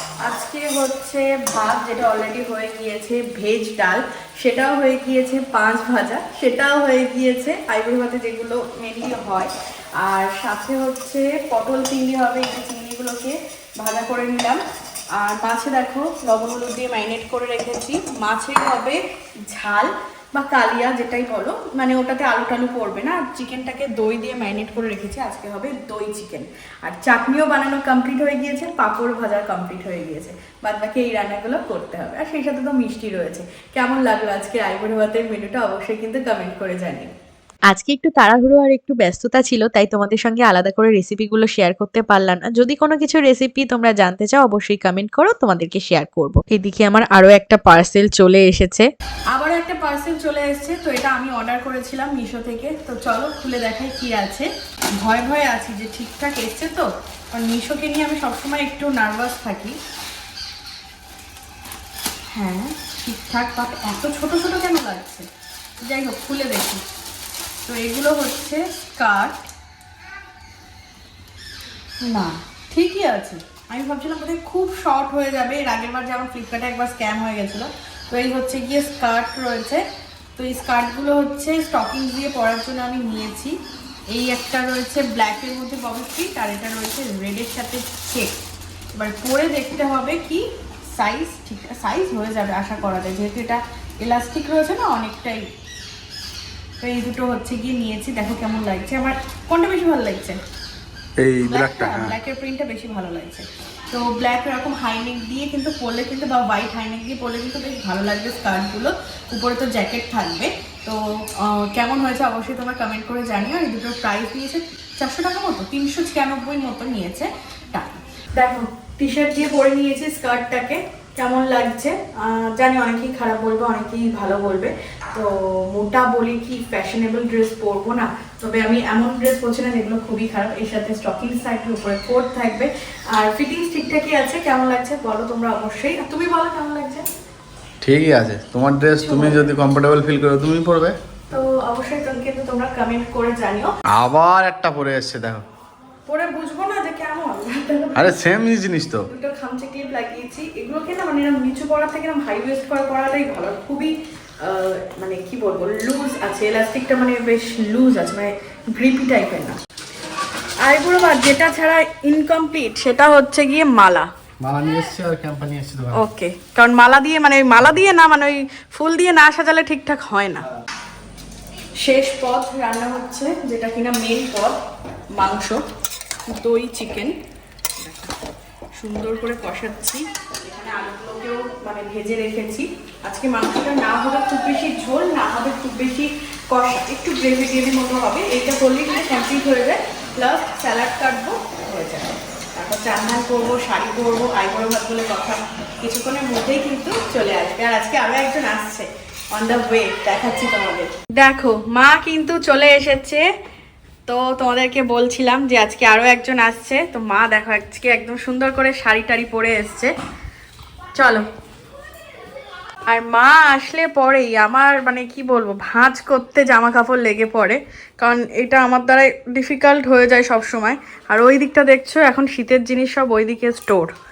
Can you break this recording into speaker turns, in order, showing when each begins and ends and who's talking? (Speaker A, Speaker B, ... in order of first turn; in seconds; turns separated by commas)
Speaker A: 0.2-14.6, Speaker A: 15.2-19.0, Speaker A: 19.5-37.1, Speaker B: 37.7-48.9, Speaker A: 49.3-54.5, Speaker A: 55.0-59.8, Speaker A: 62.3-65.3, Speaker A: 65.8-66.8, Speaker A: 67.7-69.5, Speaker A: 72.0-79.8, Speaker A: 80.3-83.5, Speaker A: 84.1-88.3, Speaker A: 88.9-90.4, Speaker A: 91.0-95.4, Speaker A: 96.8-100.4, Speaker C: 101.2-102.1, Speaker A: 101.4-137.0, Speaker C: 137.8-141.0, Speaker A: 139.0-139.6, Speaker A: 141.3-143.7, Speaker C: 143.9-145.4, Speaker A: 146.1-148.3, Speaker C: 147.9-149.1, Speaker A: 149.1-153.9, Speaker A: 154.4-159.6, Speaker A: 160.6-164.1, Speaker C: 164.4-166.0, Speaker A: 165.9-170.4, Speaker A: 171.8-174.6, Speaker A: 175.2-175.6, Speaker A: 176.3-177.1, Speaker A: 177.8-178.1, Speaker A: 178.8-203.2, Speaker A: 204.1-209.9, Speaker A: 210.9-211.2, Speaker A: 212.9-223.9